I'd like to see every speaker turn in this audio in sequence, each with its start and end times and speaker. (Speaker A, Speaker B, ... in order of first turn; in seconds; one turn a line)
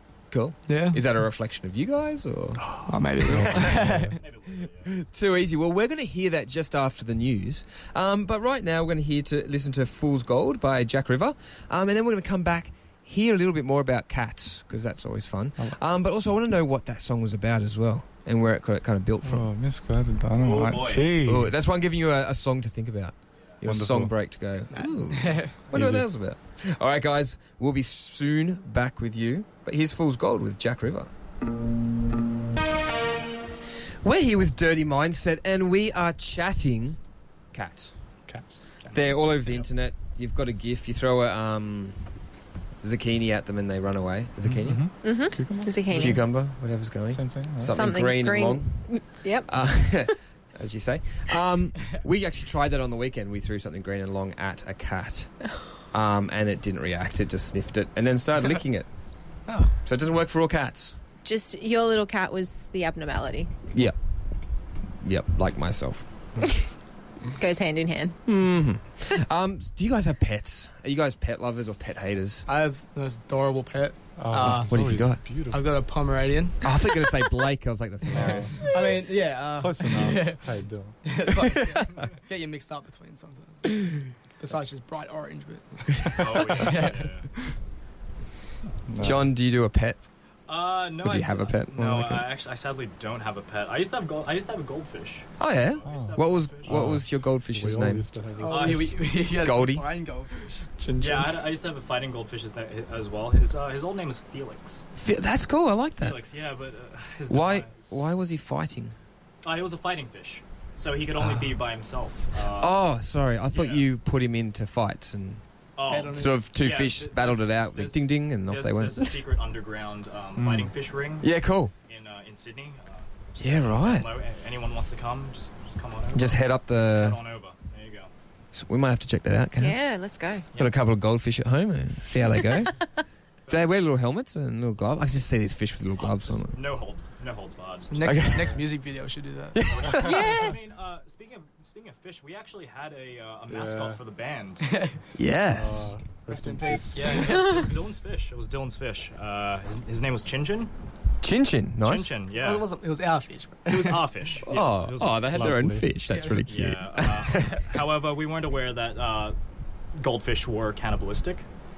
Speaker A: 0.3-2.6
Speaker B: 0.7-1.0
Speaker C: 2.6-4.1
Speaker B: 2.9-4.2
Speaker A: 3.3-3.7
Speaker D: 4.2-5.0
Speaker A: 4.8-19.5
Speaker C: 19.2-21.5
Speaker D: 20.4-21.2
Speaker A: 21.2-31.1
Speaker C: 23.6-24.1
Speaker B: 24.7-25.7
Speaker C: 25.7-26.1
Speaker A: 34.0-37.0
Speaker A: 37.5-38.0
Speaker C: 38.3-38.6
Speaker D: 38.8-39.6
Speaker A: 38.9-42.0
Speaker A: 42.8-44.9
Speaker C: 44.4-46.2
Speaker E: 45.0-46.2
Speaker A: 45.9-55.3
Speaker C: 47.1-47.8
Speaker E: 47.6-49.8
Speaker A: 55.9-58.9
Speaker B: 59.5-59.7
Speaker A: 59.8-61.0
Speaker E: 61.2-63.5
Speaker A: 65.0-66.0
Speaker E: 67.3-68.2
Speaker A: 68.2-72.5
Speaker B: 72.5-74.8
Speaker C: 74.2-75.7
Speaker A: 74.4-75.2
Speaker B: 75.5-76.7
Speaker A: 76.6-78.5
Speaker C: 78.1-78.6
Speaker B: 78.1-87.5
Speaker C: 79.5-81.0
Speaker D: 86.2-87.3
Speaker C: 88.9-89.3
Speaker A: 89.0-90.0
Speaker D: 90.5-97.0
Speaker A: 91.0-92.3
Speaker A: 95.4-98.0
Speaker C: 95.8-98.9
Speaker B: 98.4-100.7
Speaker D: 98.5-99.2
Speaker A: 99.3-99.9
Speaker C: 100.8-101.4
Speaker D: 101.0-104.8
Speaker A: 105.0-106.2
Speaker D: 106.0-108.0
Speaker A: 107.3-109.0
Speaker D: 109.4-112.8
Speaker A: 112.5-115.4
Speaker D: 113.5-113.9
Speaker D: 115.8-121.3
Speaker B: 115.9-116.4
Speaker A: 116.1-119.1
Speaker C: 120.4-120.7
Speaker A: 121.2-121.7
Speaker D: 121.9-128.1
Speaker A: 123.4-124.1
Speaker A: 126.1-127.2
Speaker A: 128.5-129.8
Speaker E: 129.6-130.4
Speaker D: 130.5-130.8
Speaker A: 130.6-132.7
Speaker D: 133.4-133.8
Speaker A: 133.5-136.6
Speaker D: 136.0-138.6
Speaker B: 137.9-140.1
Speaker A: 138.0-138.6
Speaker A: 139.6-140.2
Speaker D: 139.7-144.7
Speaker E: 139.9-140.6
Speaker C: 143.5-144.0
Speaker B: 144.7-144.9
Speaker A: 145.1-145.9
Speaker C: 145.5-147.3
Speaker B: 146.3-147.7
Speaker D: 146.9-150.7
Speaker A: 151.2-152.1
Speaker D: 151.8-152.7
Speaker B: 152.3-154.0
Speaker D: 153.7-155.5
Speaker A: 154.4-157.7
Speaker C: 155.3-155.9
Speaker B: 156.1-156.4
Speaker D: 156.4-159.4
Speaker D: 159.9-161.4